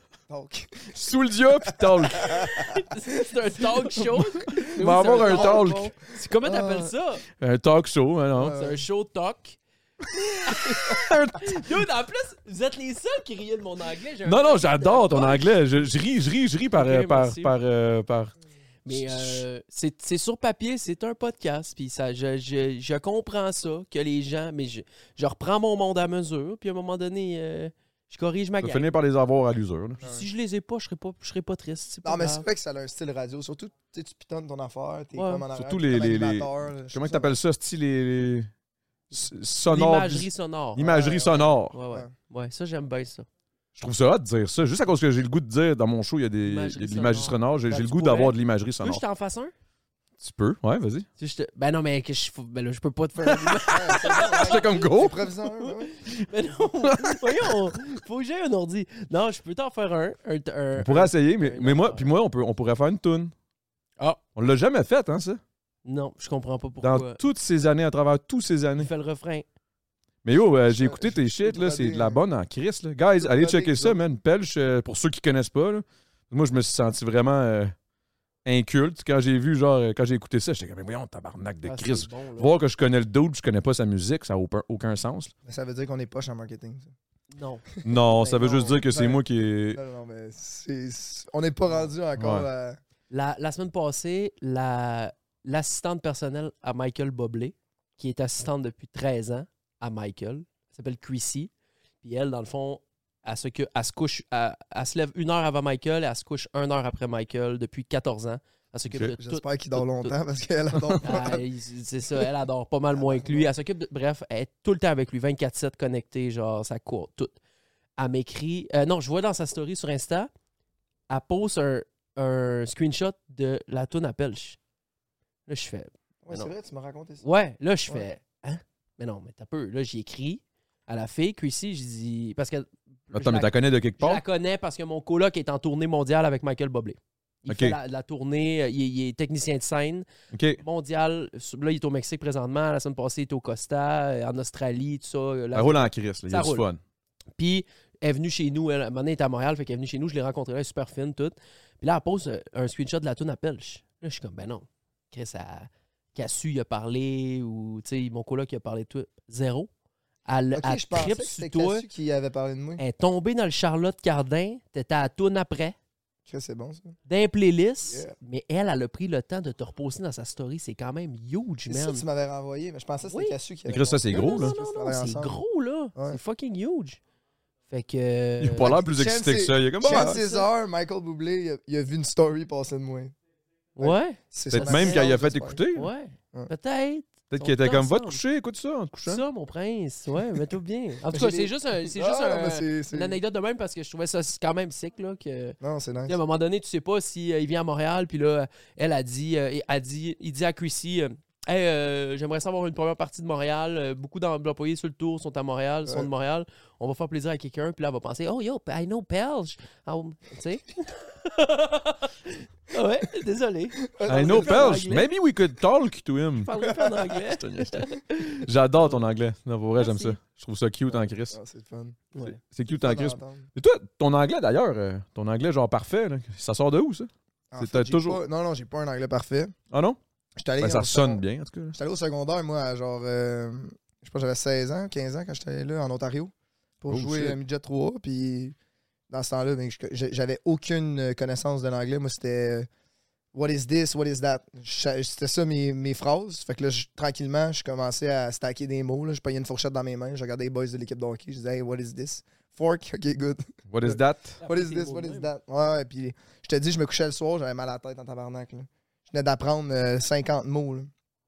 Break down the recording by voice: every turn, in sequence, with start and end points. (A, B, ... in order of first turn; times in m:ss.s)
0:00.3-0:01.0 A
0:00.9-0:02.4 B
0:01.7-0:02.8 A
0:02.4-0:07.2 C
0:03.8-0:05.9 A
0:04.6-0:05.9 B
0:06.4-0:06.9 A
0:07.4-0:08.6 B
0:08.4-0:08.8 A
0:08.4-0:09.6 C
0:10.4-0:15.6 C
0:10.8-0:11.6 B
0:14.2-0:18.4 B
0:16.7-0:17.5 C
0:18.8-0:28.9 C
0:18.9-0:19.4 B
0:28.6-0:30.0 B
0:30.0-0:30.3 A
0:30.0-0:32.5 C
0:32.0-0:37.4 A
0:35.2-0:35.4 C
0:35.5-0:38.5 B
0:39.1-0:41.7 B
0:39.2-0:43.3 C
0:40.8-0:42.1 A
0:43.8-0:49.0 B
0:46.4-0:49.5 C
0:50.2-0:51.1 B
0:51.2-0:54.9 C
0:53.6-0:55.9 A
0:54.2-0:55.2 B
0:55.6-1:02.1 C
0:56.8-0:57.5 B
1:00.8-1:03.3 B
1:04.4-1:05.4 B
1:05.8-1:07.2 C
1:06.8-1:08.9 B
1:08.8-1:09.5 C
1:10.2-1:17.7 B
1:10.7-1:12.2 A
1:13.2-1:14.0 A
1:18.4-1:25.3 B
1:21.6-1:22.5 C
1:25.4-1:26.9 A
1:27.3-1:28.8 C
1:27.8-1:29.8 B
1:28.4-1:29.2 A
1:29.7-1:32.8 A
1:31.7-1:31.9 C
1:32.2-1:32.5 B
1:33.1-1:41.5 C
1:42.0-1:50.2 C
1:49.2-1:51.4 A
1:51.0-1:57.4 C
1:53.0-1:53.5 A
1:58.0-2:00.3 C
2:01.1-2:04.6 C
2:05.5-2:06.5 C
2:06.2-2:07.2 A
2:07.2-2:20.1 C
2:13.1-2:14.2 B
2:17.5-2:17.8 B
2:20.3-2:20.6 B
2:20.6-2:26.6 C
2:25.5-2:26.8 B
2:27.4-2:39.7 C
2:40.3-2:41.9 C
2:40.5-2:42.8 A
2:42.8-2:45.8 C
2:46.3-2:47.0 A
2:47.1-2:52.0 C
2:47.9-2:48.1 A
2:51.7-2:55.4 A
2:53.1-2:53.4 C
2:53.7-2:54.6 B
2:54.1-2:57.0 C
2:56.0-2:56.2 A
2:57.7-2:58.7 C
2:58.4-3:00.2 B
2:58.6-3:03.2 A
2:59.8-3:00.5 C
3:03.8-3:05.1 C
3:03.8-3:05.6 A
3:04.5-3:05.9 B
3:05.8-3:08.2 C
3:07.3-3:09.2 B
3:09.0-3:35.1 C
3:11.1-3:13.2 A
3:15.6-3:16.2 A
3:33.9-3:34.9 A
3:34.1-3:36.5 B
3:36.4-3:39.0 C
3:36.7-3:37.0 A
3:37.1-3:41.4 B
3:39.8-3:40.2 C
3:40.9-3:42.1 A
3:42.2-3:48.2 B
3:42.7-3:43.5 A
3:47.5-3:49.6 A
3:49.7-3:50.0 B
3:50.4-3:58.6 A
3:50.6-3:51.8 B
3:56.9-3:57.4 B
3:59.1-4:02.7 A
4:03.3-4:20.9 A
4:13.7-4:14.4 B
4:14.4-4:15.3 C